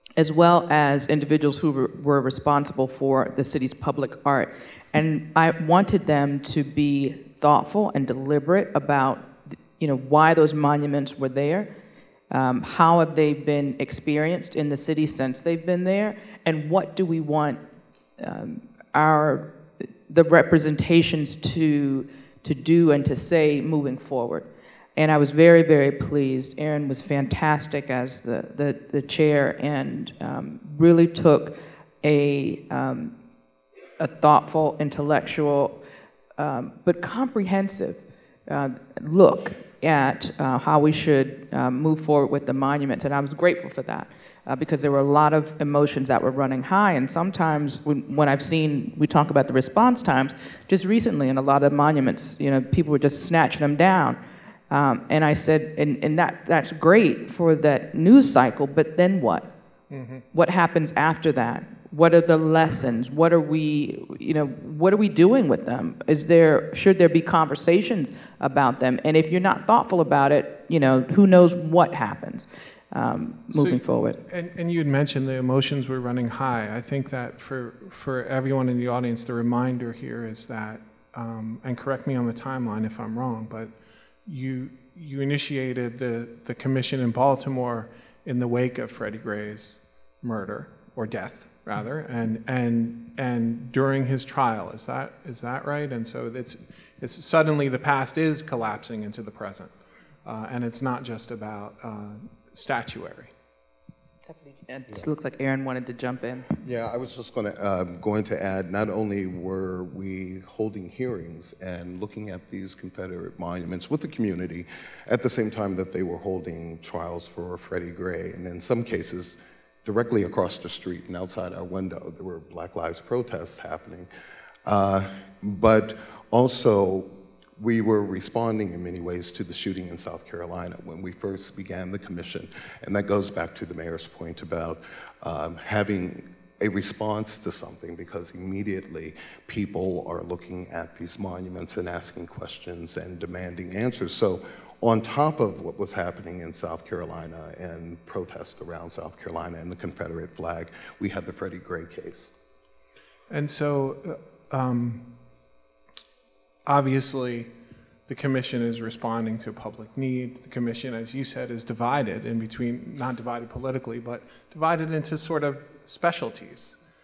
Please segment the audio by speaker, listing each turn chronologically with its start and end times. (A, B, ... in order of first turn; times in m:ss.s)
0:00.2-0:11.7 A
0:12.3-0:17.6 A
0:18.2-0:19.5 A
0:20.1-0:33.1 A
0:34.0-0:35.8 A
0:36.4-0:54.2 A
0:54.7-0:59.5 A
0:59.9-1:00.2 B
1:00.3-1:14.2 A
1:13.5-1:23.7 B
1:24.2-1:39.7 B
1:40.2-1:43.3 B
1:44.3-1:46.5 A
1:46.6-2:04.1 C
2:04.6-2:32.3 C
2:33.3-2:35.0 B
2:36.6-2:37.5 B
2:38.1-2:46.8 B